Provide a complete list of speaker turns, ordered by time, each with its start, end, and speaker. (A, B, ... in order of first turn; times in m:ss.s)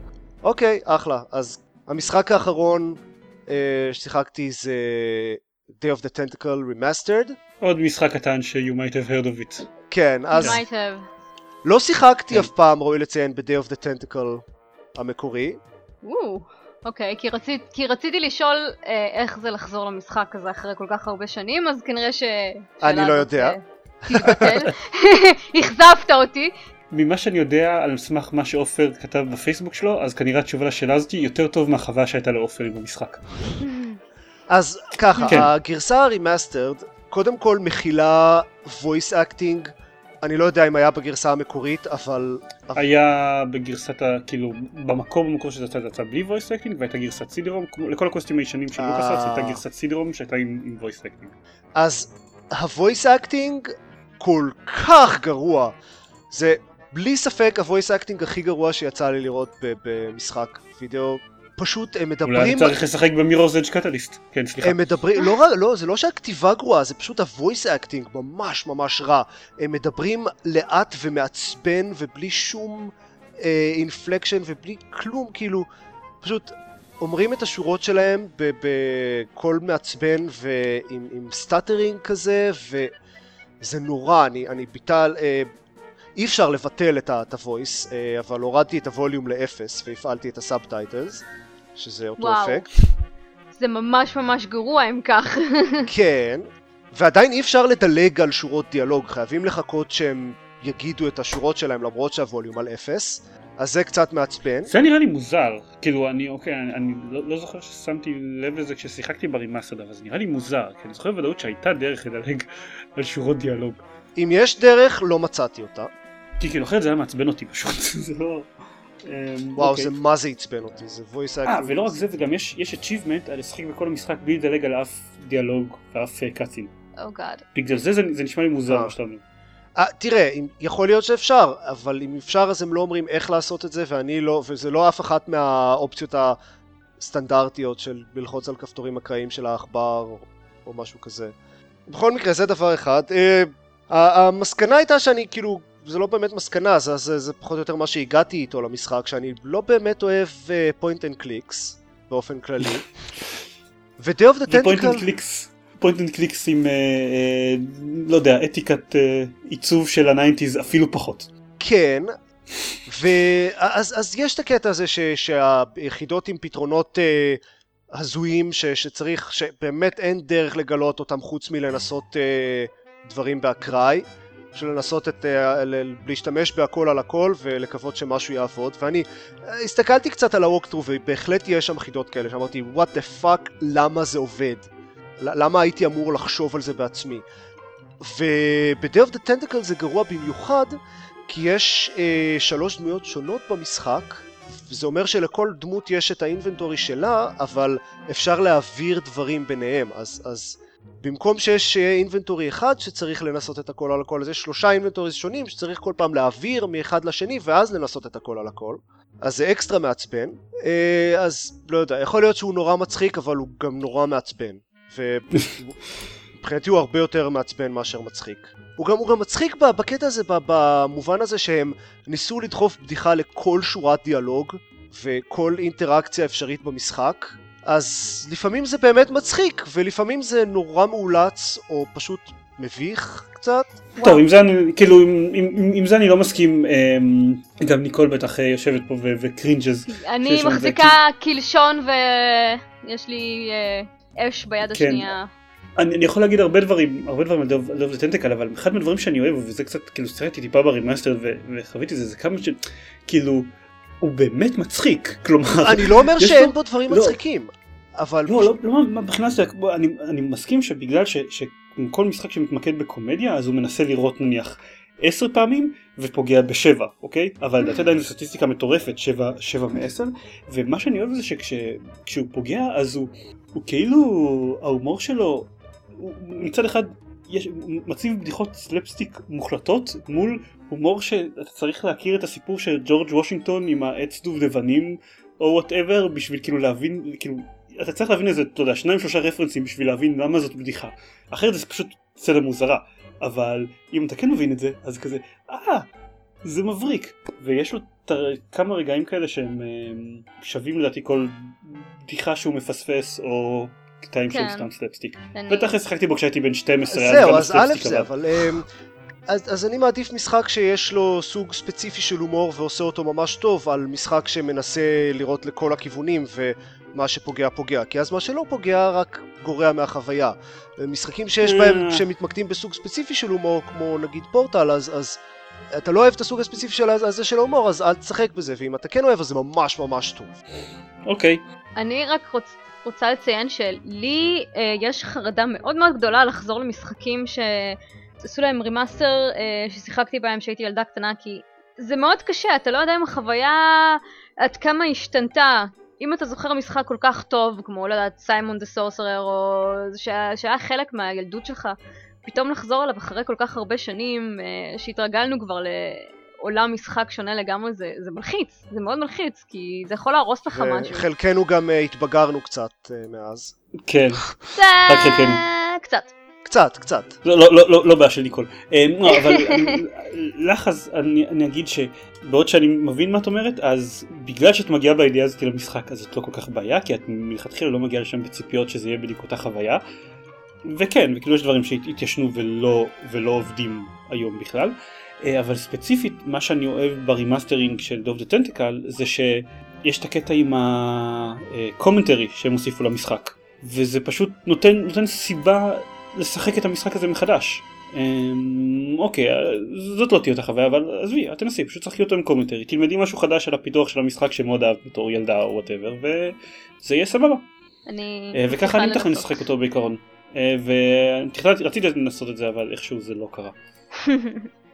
0:00.4-0:07.4 A
0:07.6-0:09.7 B
0:09.9-0:10.6 A
0:10.4-0:11.1 C
0:11.6-0:14.4 A
0:15.0-0:15.6 A
0:16.0-0:26.5 C
0:22.8-0:23.6 A
0:24.1-0:24.7 A
0:26.9-0:33.6 B
0:33.6-0:34.0 C
0:34.5-0:42.8 A
0:35.3-0:35.5 B
0:42.8-0:51.3 B
0:48.8-0:49.6 A
0:51.8-0:55.8 A
0:56.3-1:02.8 A
1:02.3-1:04.9 B
1:04.6-1:15.7 A
1:16.2-1:23.0 A
1:23.6-1:25.5 A
1:26.2-1:31.2 A
1:31.8-1:32.7 A
1:32.2-1:32.7 C
1:33.5-1:35.9 C
1:35.9-1:44.7 A
1:44.7-1:53.8 B
1:54.2-1:55.9 A
1:56.4-1:58.5 B
1:59.0-1:59.9 B
1:59.6-2:02.0 A
2:01.5-2:06.7 B
2:07.0-2:07.4 C
2:07.6-2:09.2 B
2:09.8-2:16.4 A
2:17.0-2:21.3 A
2:21.9-2:32.9 A
2:34.0-2:35.1 A
2:34.5-2:41.3 B
2:41.6-2:42.1 A
2:42.9-3:07.2 A
3:08.0-3:10.8 A
3:11.3-3:35.8 A
3:36.4-3:53.8 A
3:54.0-4:01.0 B
3:59.9-4:05.3 C
4:04.7-4:05.1 B
4:05.8-4:17.2 B
4:15.6-4:18.5 A
4:18.3-4:55.9 B
4:56.4-5:08.1 B
5:04.3-5:04.7 C
5:05.3-5:05.8 C
5:06.9-5:08.7 A
5:09.3-5:25.2 A
5:21.4-5:22.0 B
5:25.7-5:30.4 A
5:31.1-5:31.4 B
5:31.8-6:01.0 C
6:00.5-6:03.5 A
6:03.9-6:05.4 B
6:04.6-6:06.1 C
6:06.4-6:07.2 A
6:07.2-6:19.8 B
6:09.1-6:09.8 C
6:20.7-6:47.5 B
6:47.9-6:49.4 C
6:48.3-6:53.6 B
6:54.0-6:54.5 C